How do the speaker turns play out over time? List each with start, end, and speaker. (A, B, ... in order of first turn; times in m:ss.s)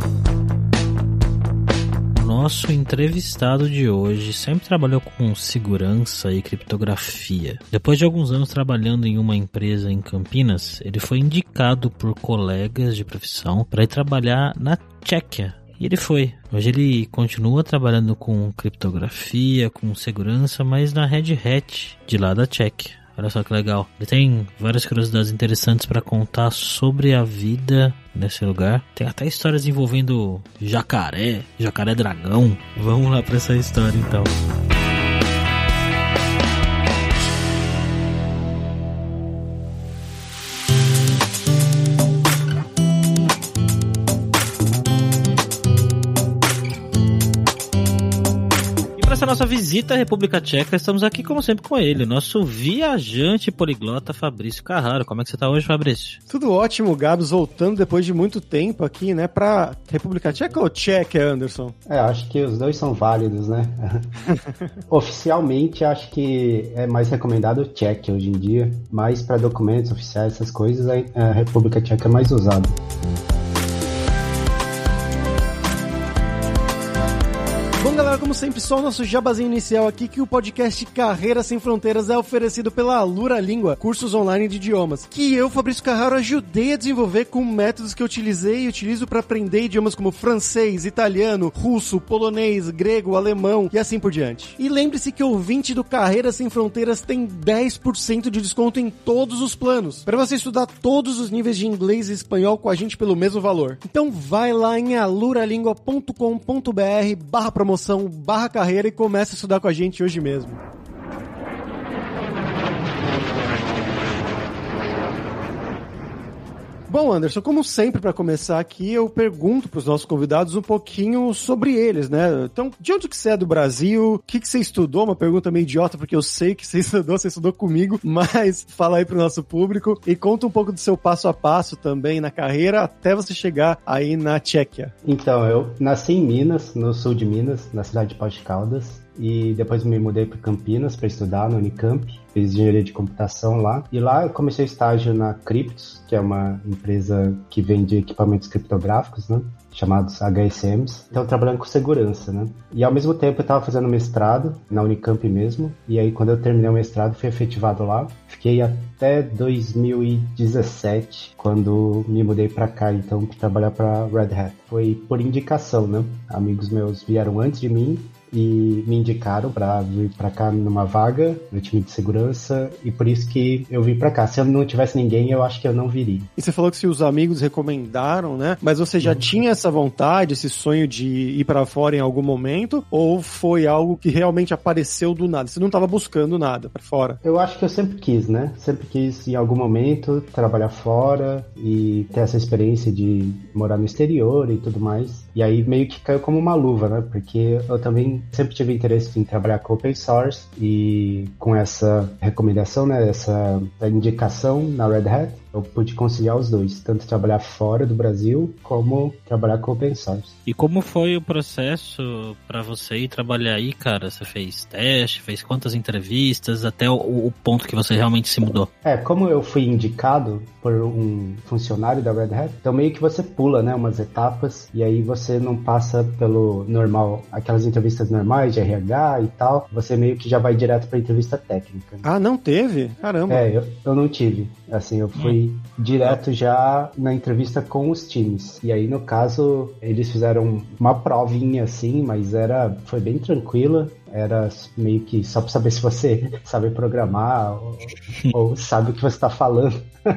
0:02.2-0:34.4 A
0:49.0-0:56.2 A
0:56.3-1:01.8 B
1:01.8-1:04.1 C
1:04.3-1:04.6 B
1:04.9-1:12.8 C
1:17.8-1:50.6 B
1:56.9-2:14.9 B
2:15.0-2:56.3 C
2:56.4-3:07.2 B
2:59.0-2:59.3 C
3:07.2-3:30.4 C
3:30.5-3:38.7 A
3:38.8-3:52.0 C
3:52.0-3:53.5 B
3:53.3-4:09.8 C